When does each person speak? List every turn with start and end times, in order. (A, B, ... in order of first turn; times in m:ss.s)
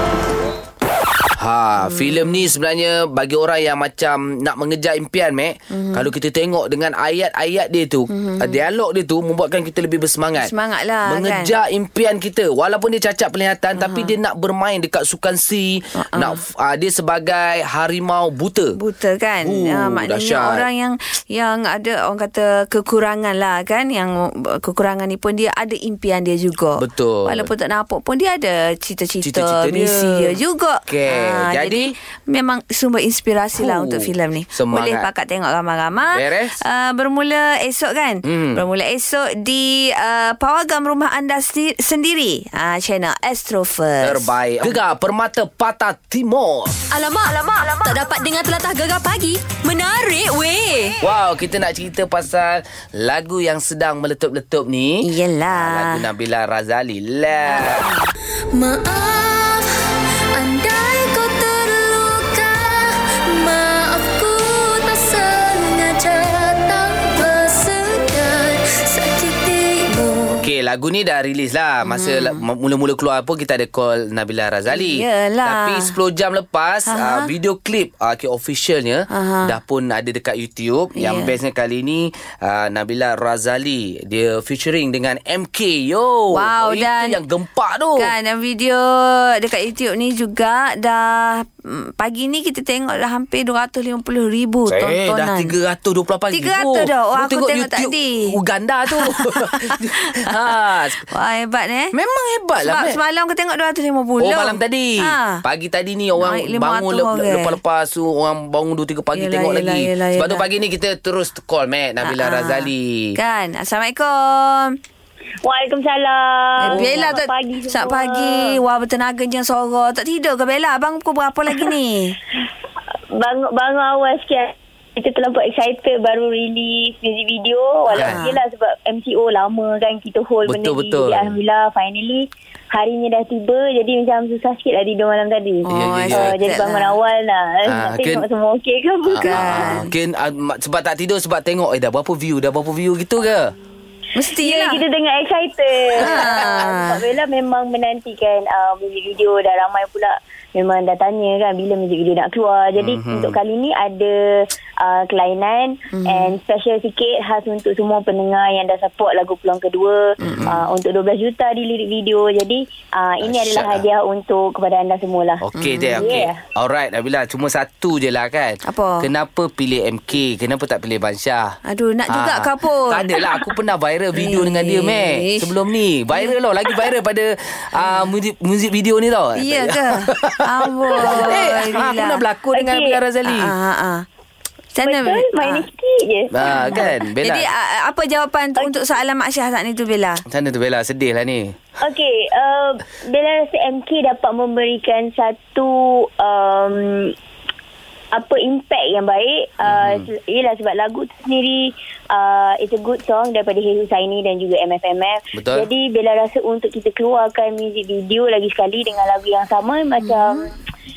0:01.4-0:10.5 A
0:01.8-0:02.3 B
0:05.7-0:06.1 B
0:08.1-0:08.6 B
0:10.4-0:11.5 B
0:11.1-0:18.7 A
0:13.8-0:14.1 B
0:16.0-0:16.4 B
0:18.8-0:44.3 B
0:19.4-0:20.6 A
0:26.8-0:27.5 A
0:29.2-0:31.9 A
0:33.6-0:35.1 A
0:36.1-0:36.6 A
0:38.2-0:38.6 A
0:44.0-0:46.7 A
0:46.9-0:51.0 C
0:51.0-0:57.9 A
0:55.0-0:56.0 B
0:57.4-0:58.1 B
0:58.5-0:59.7 D
1:00.3-1:10.4 D
1:10.4-1:28.1 A
1:11.8-1:12.4 B
1:14.7-1:15.9 B
1:16.9-1:17.3 B
1:19.1-1:19.5 B
1:21.0-1:21.3 B
1:26.3-1:27.2 B
1:28.0-1:35.5 B
1:34.7-1:41.0 A
1:36.3-1:38.3 B
1:38.9-1:40.3 B
1:41.1-1:41.9 B
1:41.9-1:43.0 A
1:42.6-1:45.4 B
1:44.2-1:53.1 A
1:46.2-1:47.6 B
1:49.1-1:50.4 B
1:52.0-1:54.7 B
1:55.4-1:58.6 E
1:56.6-2:02.2 B
1:56.6-1:57.0 A
2:03.1-2:19.4 E
2:07.9-2:08.4 B
2:07.9-2:08.3 A
2:10.4-2:11.3 A
2:15.6-2:17.0 B
2:15.7-2:16.4 A
2:17.6-2:18.2 A
2:19.1-2:23.5 A
2:19.2-2:19.9 B
2:24.1-2:24.8 B
2:24.4-2:45.4 E
2:26.0-2:27.0 B
2:26.0-2:26.4 A
2:32.8-2:33.4 A
2:35.9-2:36.3 B
2:40.2-2:40.6 A
2:43.2-2:43.8 A
2:45.4-2:51.6 A
2:45.6-2:46.1 B
2:46.0-2:46.4 E
2:48.6-2:49.1 B
2:51.7-2:53.4 B
2:52.1-3:03.5 A
2:54.2-2:55.5 B
2:57.8-2:58.1 B
2:59.4-3:02.2 B
3:01.0-3:01.4 E
3:02.5-3:03.0 E
3:03.3-3:04.0 B
3:04.7-3:05.6 B
3:04.8-3:06.9 E
3:06.3-3:07.5 A
3:06.4-3:10.2 B
3:10.3-3:11.6 A
3:11.8-3:17.1 E
3:18.1-3:30.5 E
3:19.6-3:20.1 A
3:25.3-3:25.7 A
3:30.0-3:30.4 B